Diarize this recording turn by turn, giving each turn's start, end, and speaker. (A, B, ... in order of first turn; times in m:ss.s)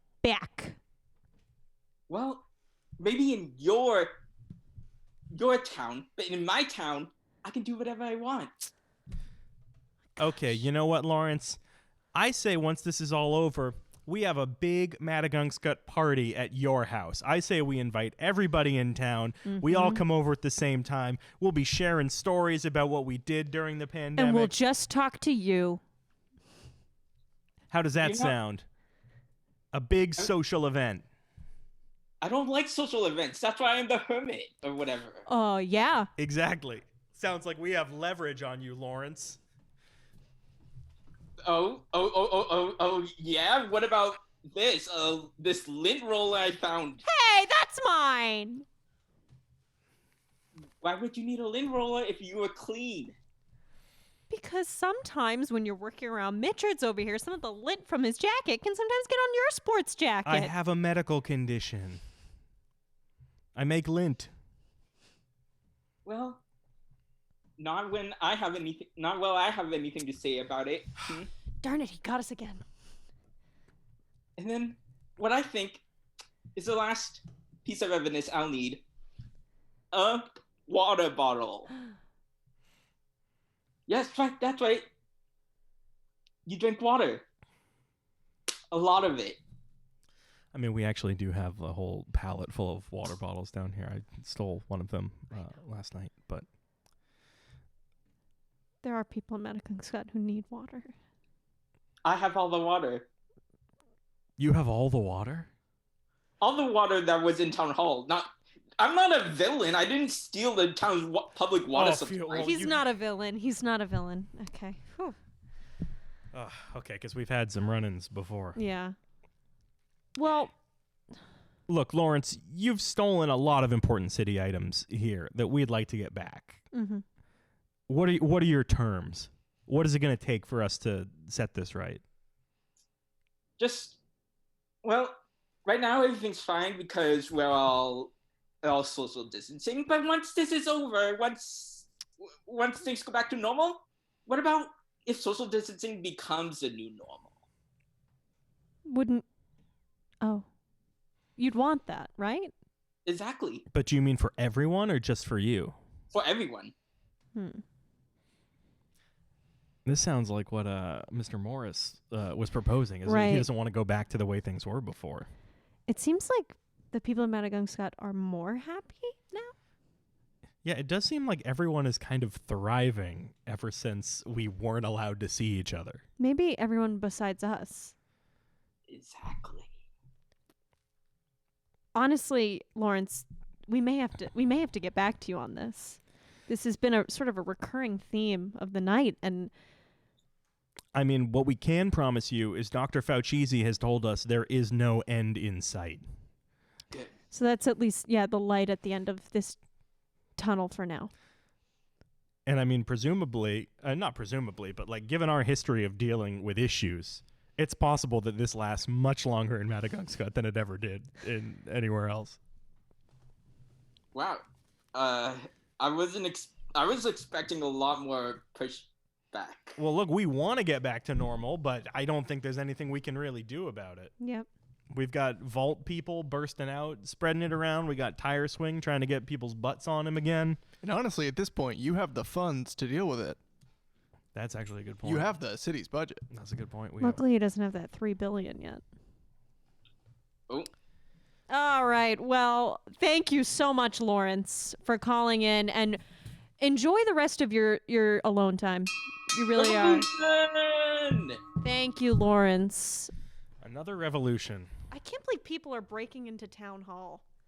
0:00.2-0:00.8 A
0:02.1-0:02.4 B
0:03.0-0:04.1 B
0:05.3-0:08.7 B
0:10.2-0:11.6 C
0:12.1-0:24.5 C
0:19.5-0:20.0 A
0:24.2-0:25.8 A
0:27.7-0:28.6 C
0:28.0-0:28.4 B
0:29.7-0:31.0 C
0:32.2-0:35.3 B
0:35.3-0:36.1 A
0:36.2-0:39.4 C
0:41.4-0:47.0 B
0:47.1-0:48.6 A
0:50.8-0:53.2 B
0:54.3-1:00.5 A
1:00.3-1:02.0 C
1:03.6-1:04.3 C
1:06.0-1:06.4 B
1:07.6-1:11.3 B
1:11.6-1:12.6 A
1:14.4-1:15.8 B
1:16.6-1:18.8 B
1:19.9-1:21.7 B
1:23.9-1:24.9 B
1:26.5-1:27.2 B
1:28.7-1:29.4 B
1:30.5-1:36.5 C
1:38.8-1:40.9 A
1:42.0-1:43.1 B
1:44.4-1:45.5 C
1:46.4-1:52.6 B
1:51.7-1:52.8 C
1:52.3-1:55.2 A
1:56.3-1:58.6 C
1:58.6-1:59.0 A
2:00.2-2:00.5 A
2:01.7-2:06.6 C
2:06.7-2:07.0 A
2:07.9-2:12.0 C
2:13.6-2:14.0 B
2:14.8-2:27.3 B
2:28.9-2:29.2 A
2:30.2-2:30.5 A
2:31.4-2:32.5 A
2:33.1-2:33.6 B
2:33.7-2:35.8 C
2:36.1-2:36.7 B
2:37.4-2:37.6 A
2:39.9-2:45.3 C
2:43.1-2:43.5 A
2:45.9-2:49.5 A
2:50.6-2:56.0 C
2:56.2-2:57.9 A
2:58.9-2:59.7 B
3:01.9-3:09.5 A
3:11.0-3:16.0 C
3:17.3-3:19.6 A
3:20.4-3:21.1 A
3:22.5-3:32.4 C
3:34.1-3:39.8 B
3:39.8-3:44.1 C
3:44.2-3:44.5 A
3:44.9-3:50.6 C
3:50.8-3:53.4 D
3:54.4-3:55.3 C
3:55.0-3:56.2 D
3:56.3-3:57.2 C
3:57.0-3:58.8 A
4:01.5-4:06.0 A
4:06.6-4:10.1 A
4:09.6-4:11.4 B
4:11.6-4:13.1 A
4:13.6-4:14.7 C
4:14.9-4:17.2 A